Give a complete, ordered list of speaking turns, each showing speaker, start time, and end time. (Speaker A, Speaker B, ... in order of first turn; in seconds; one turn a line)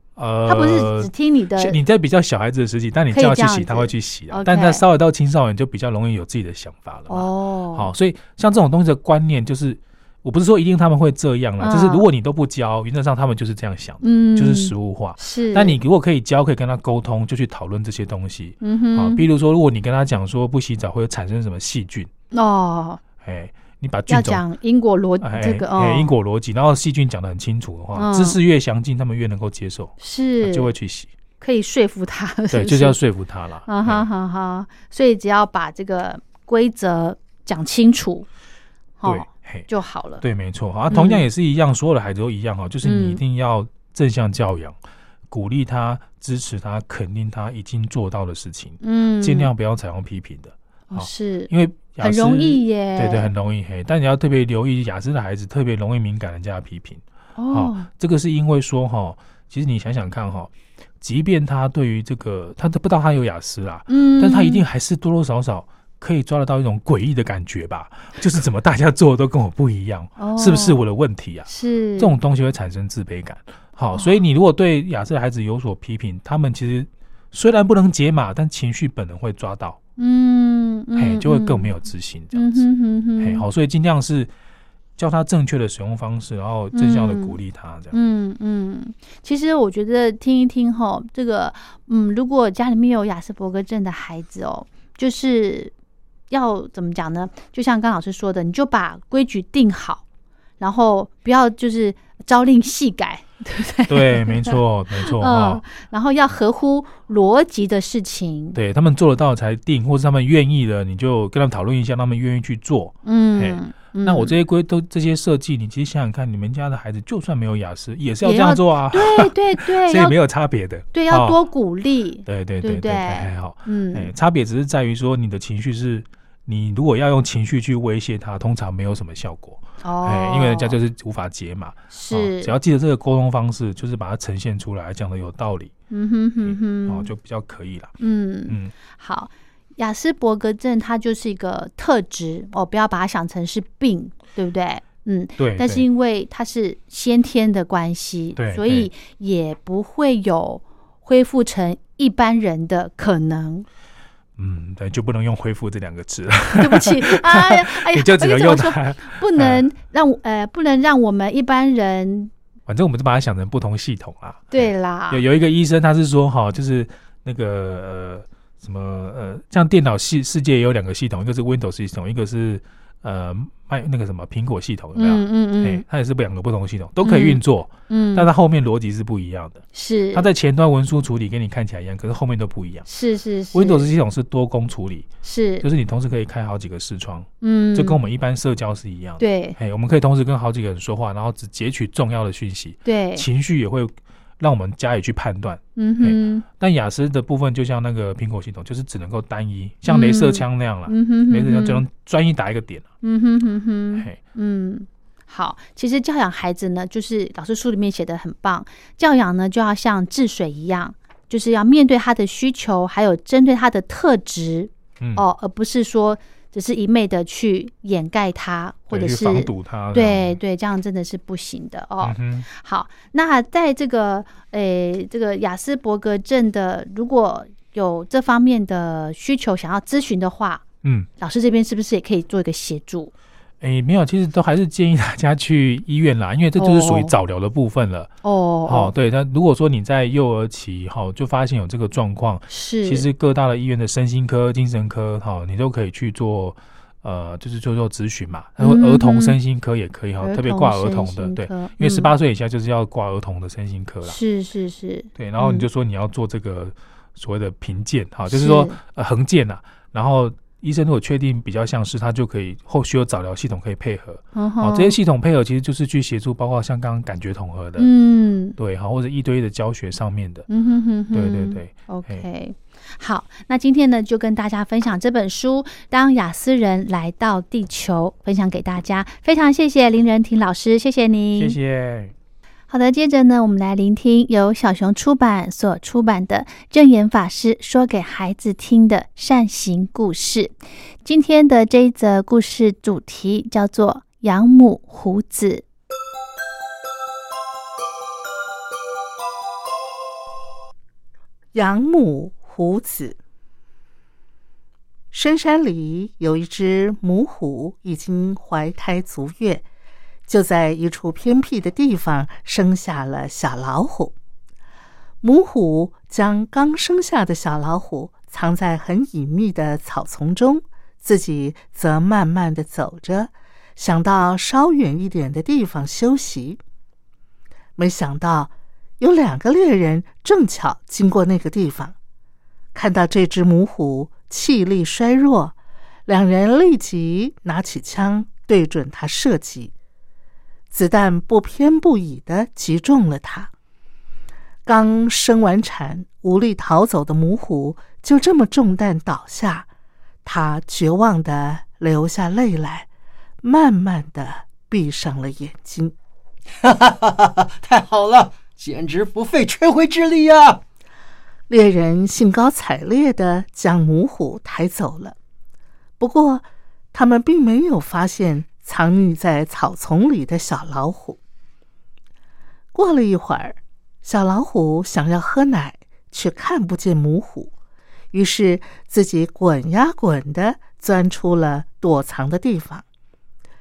Speaker A: 0.1-22.1
Speaker B: 0.5-1.8
Speaker B: 3.1-4.8
Speaker B: 7.1-7.9
Speaker B: 11.6-12.0
Speaker B: 14.0-15.8
Speaker B: 18.6-19.2
Speaker B: 22.3-23.0
Speaker A: 23.2-24.4
Speaker B: 24.1-26.1
Speaker A: 25.2-31.1
Speaker B: 27.9-28.4
Speaker B: 30.0-30.7
Speaker B: 31.4-33.0
Speaker A: 32.5-34.1
Speaker B: 33.7-38.3
Speaker B: 39.0-40.2
Speaker A: 39.0-39.7
Speaker A: 40.2-44.8
Speaker B: 40.9-41.2
Speaker B: 42.8-43.2
Speaker A: 45.3-79.8
Speaker B: 48.8-49.5
Speaker B: 50.9-53.3
Speaker B: 57.4-57.9
Speaker B: 63.9-64.6
Speaker B: 70.2-70.8
Speaker B: 71.5-72.1
Speaker B: 80.0-81.7
Speaker A: 81.0-82.6
Speaker B: 82.3-83.4
Speaker A: 83.2-84.3
Speaker A: 85.0-88.0
Speaker B: 86.7-87.3
Speaker B: 87.9-95.7
Speaker B: 96.3-100.0
Speaker B: 100.6-108.6
Speaker A: 103.9-105.6
Speaker A: 108.5-121.4
Speaker B: 113.0-114.3
Speaker B: 118.2-120.2
Speaker B: 120.9-124.1
Speaker A: 122.2-135.7
Speaker B: 129.8-130.8
Speaker B: 131.9-132.5
Speaker B: 135.9-137.1
Speaker A: 136.4-137.9
Speaker B: 138.0-153.7
Speaker A: 138.5-138.7
Speaker A: 145.4-145.8
Speaker A: 148.3-148.9
Speaker A: 154.4-159.6
Speaker B: 156.6-162.3
Speaker A: 162.7-182.9
Speaker B: 164.5-165.2
Speaker B: 174.9-175.8
Speaker B: 177.0-178.3
Speaker B: 179.7-180.3
Speaker B: 182.8-183.8
Speaker A: 183.5-185.1
Speaker B: 185.2-185.7
Speaker A: 185.6-202.9
Speaker B: 187.4-188.0
Speaker B: 189.2-189.6
Speaker B: 192.8-193.2
Speaker B: 195.8-196.4
Speaker B: 199.9-201.8
Speaker B: 203.0-230.6
Speaker A: 218.9-220.4
Speaker A: 222.0-222.5
Speaker A: 230.8-231.1
Speaker B: 231.2-233.1
Speaker A: 233.6-238.1
Speaker B: 236.6-237.1
Speaker B: 238.2-238.9
Speaker A: 238.7-254.2
Speaker B: 242.5-243.1
Speaker B: 248.6-249.4
Speaker B: 250.2-252.1
Speaker B: 254.0-255.7
Speaker A: 255.2-267.9
Speaker B: 258.3-258.8
Speaker B: 264.3-264.9
Speaker B: 267.8-268.6
Speaker A: 268.6-270.4
Speaker B: 270.5-281.6
Speaker A: 271.1-272.2
Speaker A: 281.3-282.1
Speaker B: 282.7-295.6
Speaker C: 301.5-303.2
Speaker C: 305.1-309.6
Speaker C: 310.3-314.1
Speaker C: 315.2-326.6
Speaker C: 327.8-331.9
Speaker C: 332.7-335.5
Speaker C: 336.1-339.7
Speaker C: 340.7-343.5
Speaker C: 344.6-349.7
Speaker C: 350.2-352.9
Speaker C: 353.4-355.9
Speaker D: 356.6-360.6
Speaker C: 361.5-365.1
Speaker C: 366.0-371.2
Speaker C: 372.7-377.5
Speaker C: 378.1-382.8